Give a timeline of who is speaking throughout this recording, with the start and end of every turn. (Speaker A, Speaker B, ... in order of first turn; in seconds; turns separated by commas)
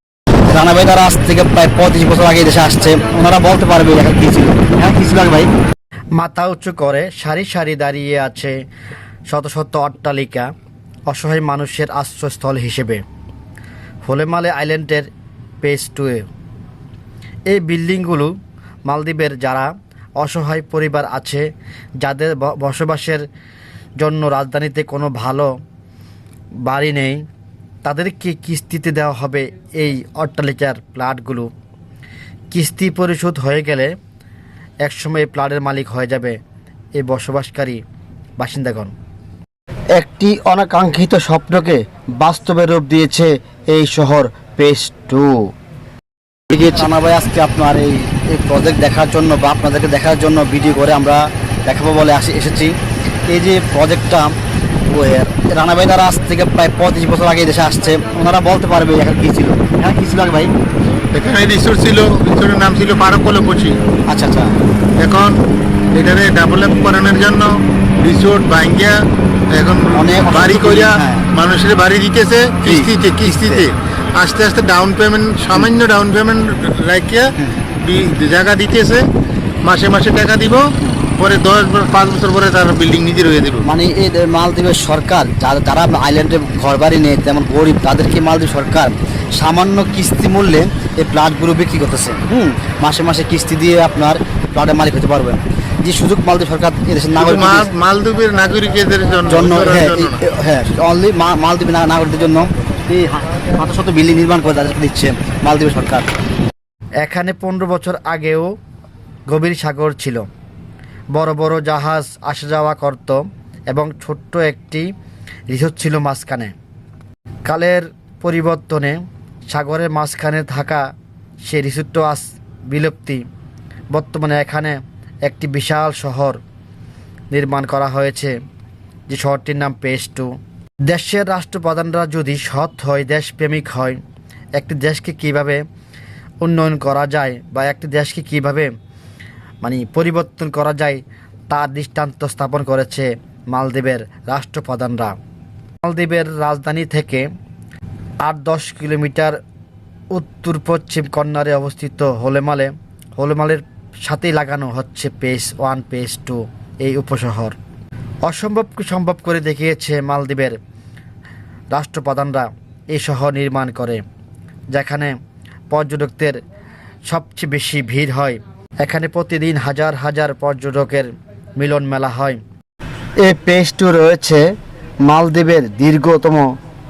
Speaker A: 0.5-5.5, Speaker B: 6.1-8.6, Speaker B: 9.3-10.5, Speaker B: 11.1-13.0, Speaker B: 14.0-15.1, Speaker B: 15.6-16.2, Speaker B: 17.5-18.3, Speaker B: 18.9-21.4, Speaker B: 22.0-23.2, Speaker B: 24.0-25.5, Speaker B: 26.6-27.2, Speaker B: 27.8-31.5, Speaker B: 32.5-33.9, Speaker B: 34.8-36.4, Speaker B: 37.0-37.8, Speaker B: 38.4-38.9, Speaker B: 39.9-45.5, Speaker A: 46.5-52.8, Speaker A: 53.3-60.5, Speaker C: 61.1-63.8, Speaker A: 64.1-64.5, Speaker C: 65.0-65.4, Speaker C: 65.9-79.1, Speaker A: 69.9-71.3, Speaker A: 72.6-73.7, Speaker C: 79.6-83.7, Speaker A: 83.6-97.7, Speaker C: 97.2-100.2, Speaker A: 99.3-106.1, Speaker B: 107.0-108.5, Speaker B: 109.3-110.2, Speaker B: 111.1-114.9, Speaker B: 115.5-116.5, Speaker B: 117.5-120.8, Speaker B: 121.4-123.2, Speaker B: 123.9-126.4, Speaker B: 127.3-128.3, Speaker B: 129.1-130.3, Speaker B: 130.9-134.0, Speaker B: 134.6-135.6, Speaker B: 136.4-138.7, Speaker B: 139.6-145.1, Speaker B: 145.8-147.3, Speaker B: 148.2-149.4, Speaker B: 150.1-157.6, Speaker B: 158.2-160.6, Speaker B: 161.7-164.0, Speaker B: 164.7-165.1, Speaker B: 165.7-166.4, Speaker B: 167.1-172.4, Speaker B: 173.2-174.5, Speaker B: 175.1-176.5